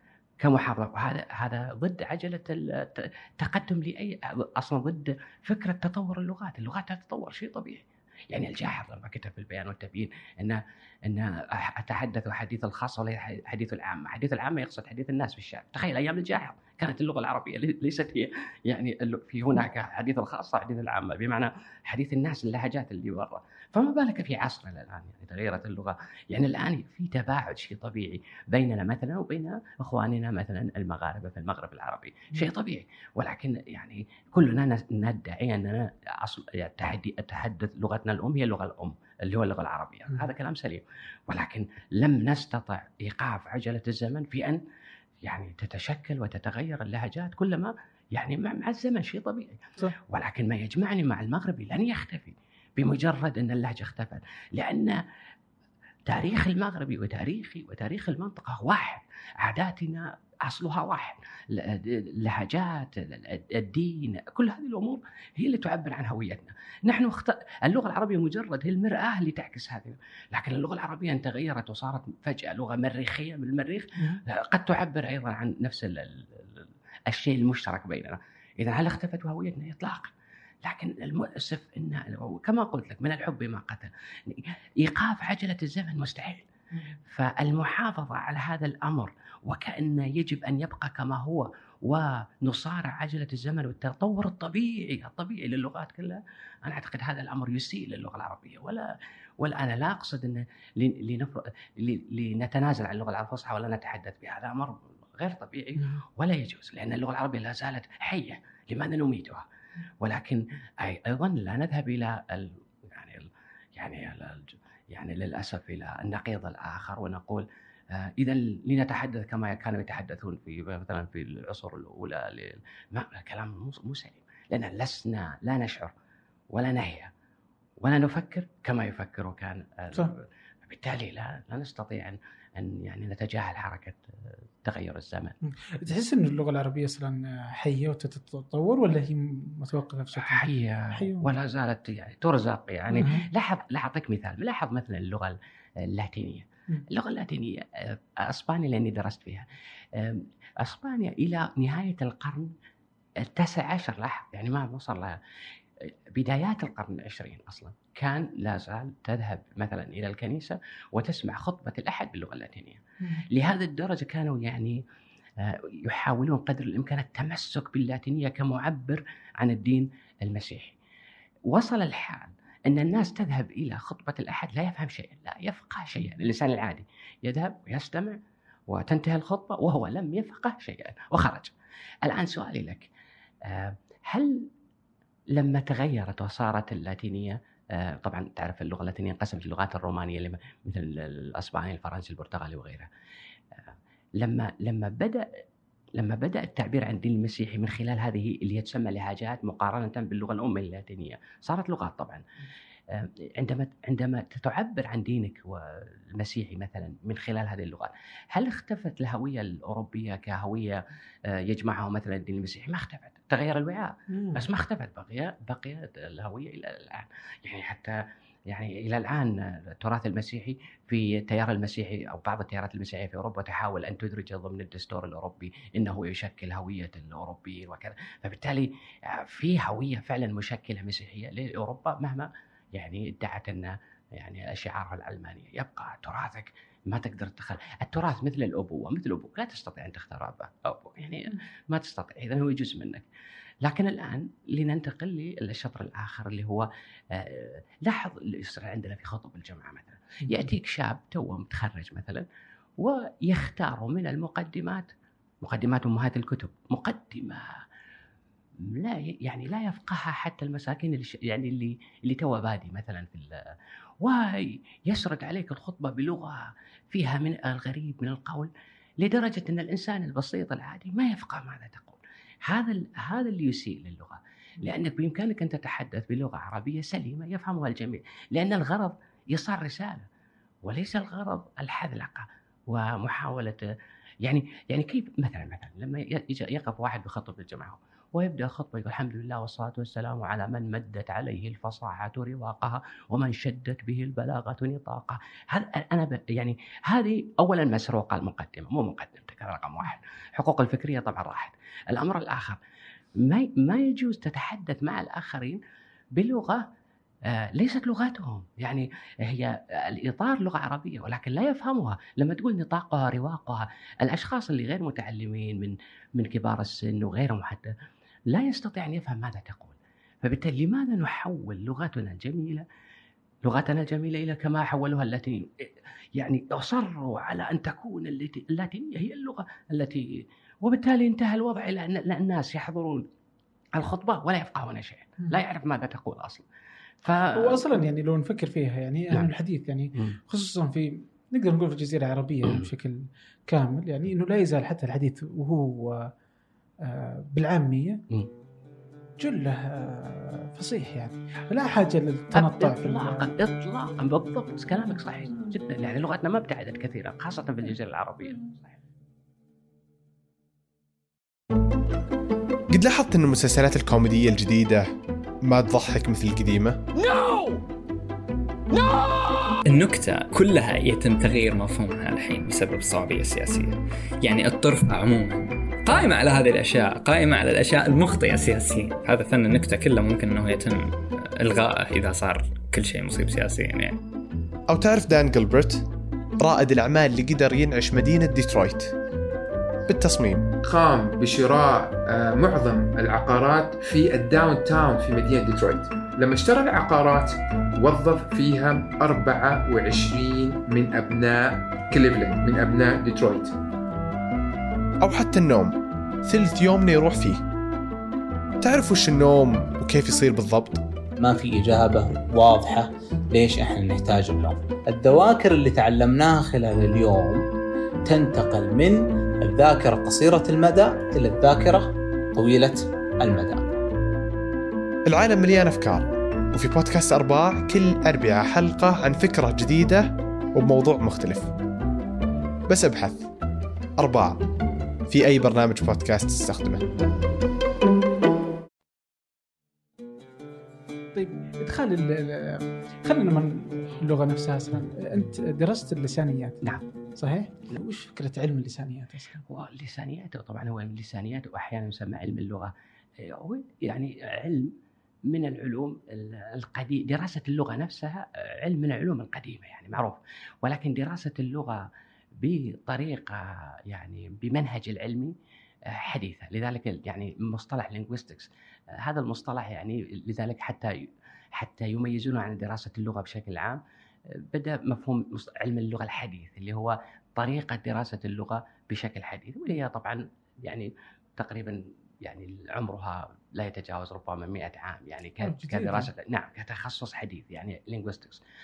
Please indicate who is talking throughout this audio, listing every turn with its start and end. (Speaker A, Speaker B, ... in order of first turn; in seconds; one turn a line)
Speaker A: 0.4-44.6
Speaker A: 45.2-55.0
Speaker A: 56.1-80.1
Speaker A: 80.6-86.5
Speaker A: 87.0-98.9
Speaker A: 99.4-109.5
Speaker A: 110.0-125.9
Speaker A: 126.5-127.1
Speaker A: 127.8-134.0
Speaker A: 134.6-135.3
Speaker B: 135.4-141.3
Speaker A: 140.2-152.5
Speaker B: 142.9-143.3
Speaker A: 153.2-155.2
Speaker A: 156.2-164.8
Speaker A: 165.4-170.8
Speaker A: 171.5-181.5
Speaker A: 182.1-182.9
Speaker A: 183.5-184.5
Speaker A: 185.3-192.9
Speaker A: 194.2-195.2
Speaker A: 196.0-202.2
Speaker A: 202.9-210.8
Speaker A: 211.4-218.0
Speaker B: 214.1-214.4
Speaker A: 218.5-243.1
Speaker A: 243.6-252.3
Speaker A: 252.8-254.9
Speaker A: 255.4-257.5
Speaker A: 258.6-263.4
Speaker A: 264.0-280.1
Speaker A: 280.6-283.6
Speaker A: 284.2-302.6
Speaker A: 303.2-305.6
Speaker A: 306.2-306.6
Speaker A: 307.3-317.7
Speaker A: 318.3-322.6
Speaker A: 323.4-333.1
Speaker A: 333.8-336.4
Speaker A: 337.0-337.8
Speaker B: 337.4-346.1
Speaker B: 346.8-348.0
Speaker B: 349.2-353.3
Speaker A: 352.3-358.7
Speaker C: 362.7-364.9
Speaker C: 365.4-367.1
Speaker D: 367.2-367.6
Speaker E: 369.6-384.0
Speaker C: 384.7-385.9
Speaker C: 386.4-388.9
Speaker C: 389.9-390.6
Speaker D: 390.6-403.5
Speaker C: 405.0-407.4
Speaker C: 408.6-410.8
Speaker F: 411.2-417.4
Speaker F: 418.1-423.6
Speaker C: 425.1-431.5
Speaker C: 432.7-433.3
Speaker C: 434.0-434.4
Speaker C: 435.1-436.9
Speaker B: 441.1-449.4
Speaker A: 449.5-454.7
Speaker A: 455.3-461.8
Speaker A: 462.4-465.3
Speaker A: 465.9-473.8
Speaker A: 474.5-488.4
Speaker B: 485.4-486.1